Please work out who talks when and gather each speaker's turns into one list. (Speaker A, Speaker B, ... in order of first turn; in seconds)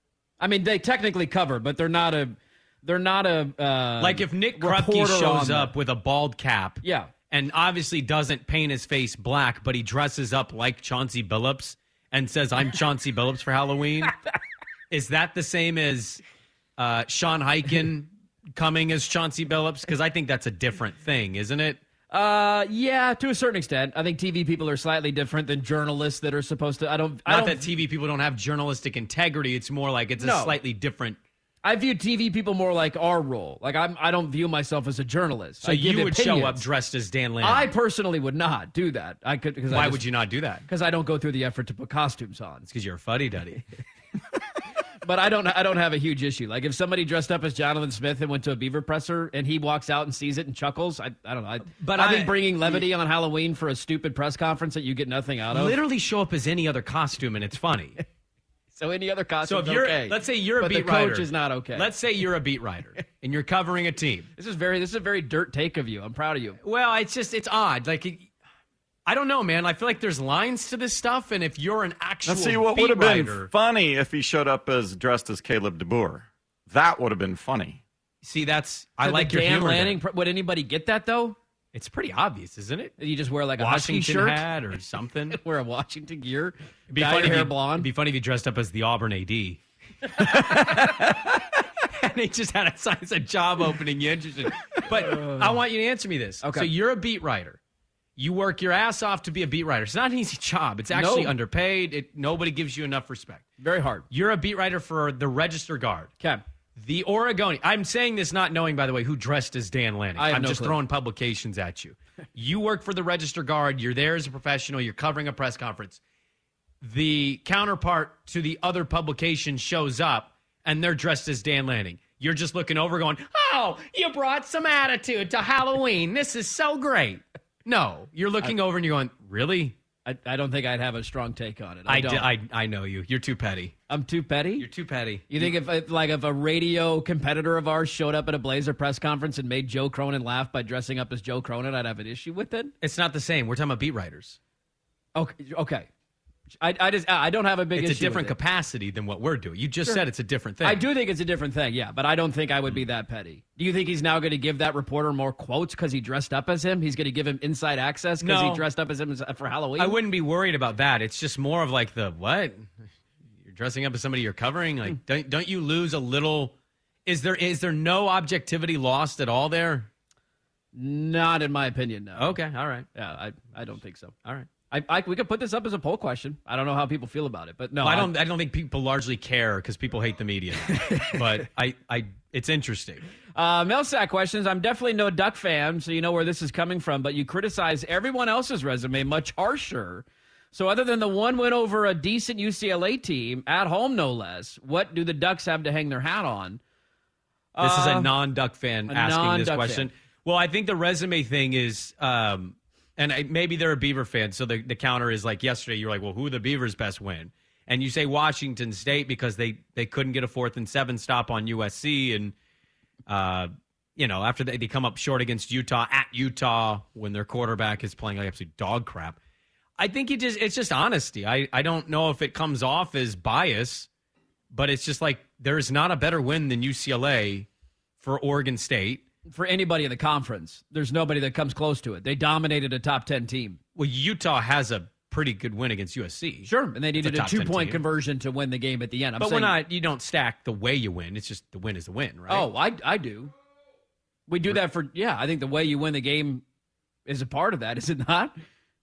Speaker A: 0.4-5.7, 6.8-7.1, 22.1-27.7, 30.2-30.6, 31.6-36.6, 37.4-40.0, 40.6-42.7, 45.0-55.8, 58.7-61.9, 64.4-66.6, 79.0-81.4, 83.0-84.5, 85.3-87.9, 95.1-95.5, 96.4-96.7, 100.9-101.3, 103.6-104.1, 110.2-110.8, 130.1-132.3, 133.9-134.7, 135.3-142.7, 145.2-145.9, 146.6-148.4, 150.6-160.0, 170.7-172.4, 172.9-174.2, 174.7-178.1, 183.4-196.6, 197.5-198.1, 198.9-199.9, 229.3-233.6, 236.4-239.6, 242.3-243.3, 244.3-246.4, 247.1-248.3
Speaker B: 4.0-14.2, 14.9-16.2, 16.8-21.8, 27.3-31.2, 35.6-37.7, 39.7-40.6, 42.7-43.6, 51.8-52.9, 55.5-58.0, 59.4-64.3, 66.6-68.3, 69.1-73.5, 78.2-80.0, 81.7-83.0, 83.6-85.4, 86.9-97.6, 98.2-103.5, 104.1-106.1, 106.8-116.0, 116.8-129.8, 131.9-133.7, 134.6-135.5, 142.8-144.4, 147.8-150.8, 158.2-158.7, 159.8-162.7, 163.4-166.5, 167.1-169.9, 172.2-172.9, 177.8-183.0, 197.6-212.3, 213.1-219.2, 219.8-223.9, 224.5-227.5, 228.0-229.0, 233.8-237.8, 239.2-242.5
Speaker C: 72.2-77.8